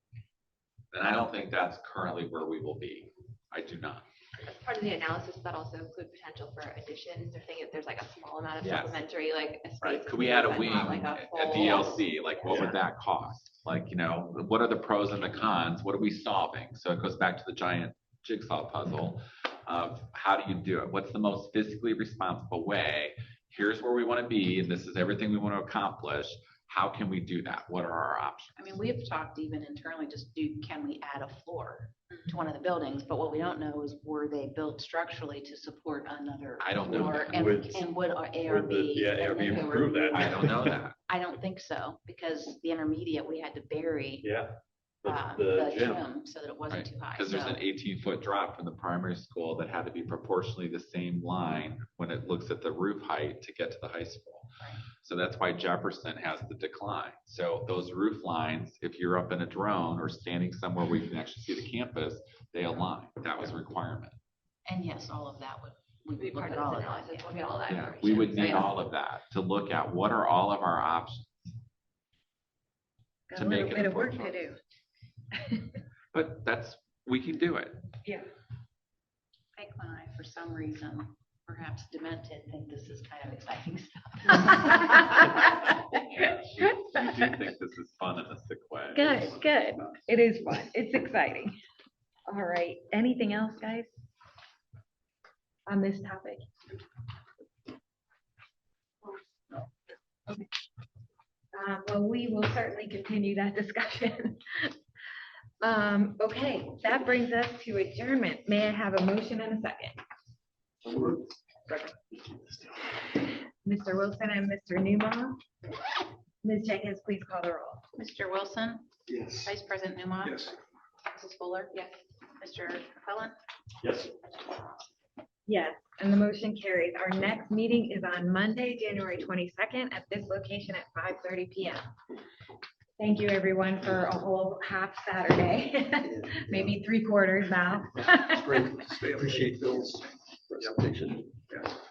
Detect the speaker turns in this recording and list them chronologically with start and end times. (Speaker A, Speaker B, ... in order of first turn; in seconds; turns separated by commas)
Speaker A: 0.9-4.0, Speaker B: 4.4-12.7, Speaker A: 8.6-9.0, Speaker A: 9.8-28.8, Speaker C: 28.6-44.3, Speaker A: 36.6-37.6, Speaker D: 36.9-40.8, Speaker A: 40.1-40.9, Speaker D: 44.2-46.1, Speaker C: 45.0-47.6, Speaker A: 46.7-64.2, Speaker C: 64.7-67.3, Speaker B: 66.2-68.8, Speaker A: 67.7-71.5, Speaker E: 73.3-74.6, Speaker A: 73.3-74.5, Speaker E: 75.3-75.7, Speaker A: 76.1-77.8, Speaker C: 79.5-85.3, Speaker A: 85.9-89.9, Speaker E: 88.9-91.5, Speaker E: 92.3-93.9, Speaker E: 95.7-96.4, Speaker E: 101.5-104.7, Speaker E: 105.6-110.0, Speaker E: 111.7-111.9, Speaker E: 113.6-115.4, Speaker E: 116.4-117.8, Speaker C: 118.0-120.5, Speaker F: 119.1-119.5, Speaker C: 121.1-121.8, Speaker C: 122.4-123.3, Speaker D: 123.8-124.1, Speaker E: 125.5-131.8, Speaker E: 133.0-138.7, Speaker F: 138.1-141.4, Speaker D: 139.0-139.5, Speaker D: 140.5-140.8